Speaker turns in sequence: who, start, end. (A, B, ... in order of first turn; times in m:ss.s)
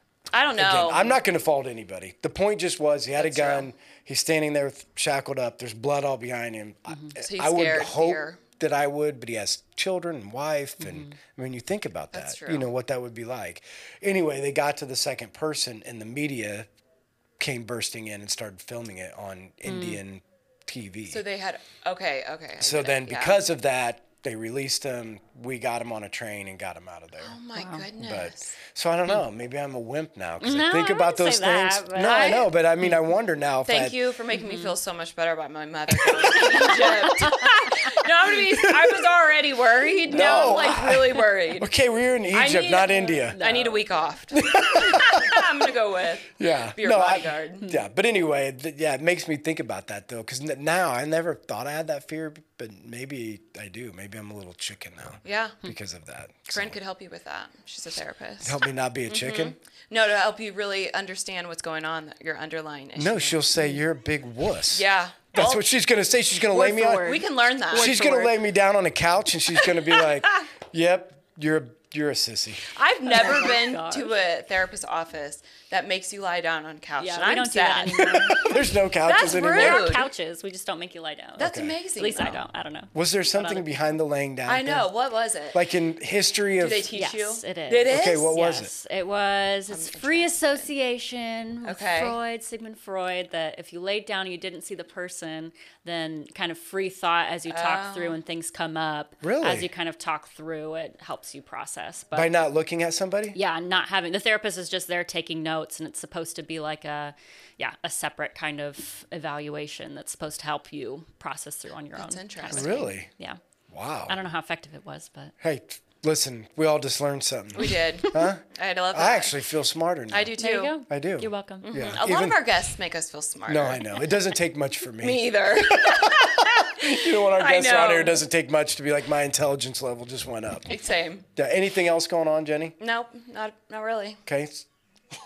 0:00.3-0:01.2 A
0:00.6-0:16.7 B
0:03.2-0:03.7 A
0:07.2-0:08.4 A
0:10.8-0:11.2 C
0:12.1-0:12.7 A
0:17.4-0:21.2 B
0:19.6-0:20.0 C
0:21.1-0:23.4 A
0:22.6-0:27.4 B
0:27.2-0:28.6 A
0:27.6-0:27.8 C
0:28.0-0:34.0 B
0:30.4-0:32.5 C
0:32.0-0:32.5 A
0:33.7-0:41.7 A
0:34.4-0:34.7 C
0:36.0-0:37.4 B
0:38.4-0:39.0 B
0:40.0-0:43.4 B
0:42.3-0:47.7 A
0:43.4-0:43.8 C
0:44.3-0:45.7 B
0:46.4-0:56.8 B
0:55.2-0:55.6 A
0:56.5-1:03.4 A
0:58.4-0:59.6 B
1:03.0-1:12.7 B
1:04.7-1:05.6 A
1:06.5-1:08.3 C
1:07.0-1:08.3 A
1:09.6-1:10.5 A
1:12.7-1:18.1 A
1:13.1-1:14.2 C
1:17.0-1:18.6 C
1:18.2-1:20.0 B
1:19.0-1:20.1 A
1:19.1-1:23.7 C
1:21.4-1:22.4 A
1:21.4-1:21.8 B
1:22.9-1:24.9 B
1:24.5-1:25.6 A
1:25.5-1:26.9 B
1:26.6-1:28.4 A
1:26.9-1:42.3 C
1:27.9-1:28.7 B
1:29.7-1:30.7 A
1:31.6-1:32.2 A
1:37.5-1:38.2 A
1:39.2-1:39.7 B
1:42.1-1:43.4 B
1:43.3-1:53.4 C
1:52.0-1:52.9 A
1:52.5-1:53.1 B
1:53.7-1:54.2 B
1:54.1-1:55.3 C
1:55.4-2:02.5 B
1:57.5-1:59.4 A
2:00.1-2:00.8 A
2:00.4-2:01.7 C
2:01.6-2:04.2 A
2:03.5-2:10.7 B
2:05.0-2:08.2 A
2:10.7-2:11.2 A
2:11.4-2:12.8 B
2:12.8-2:14.2 A
2:14.3-2:14.6 B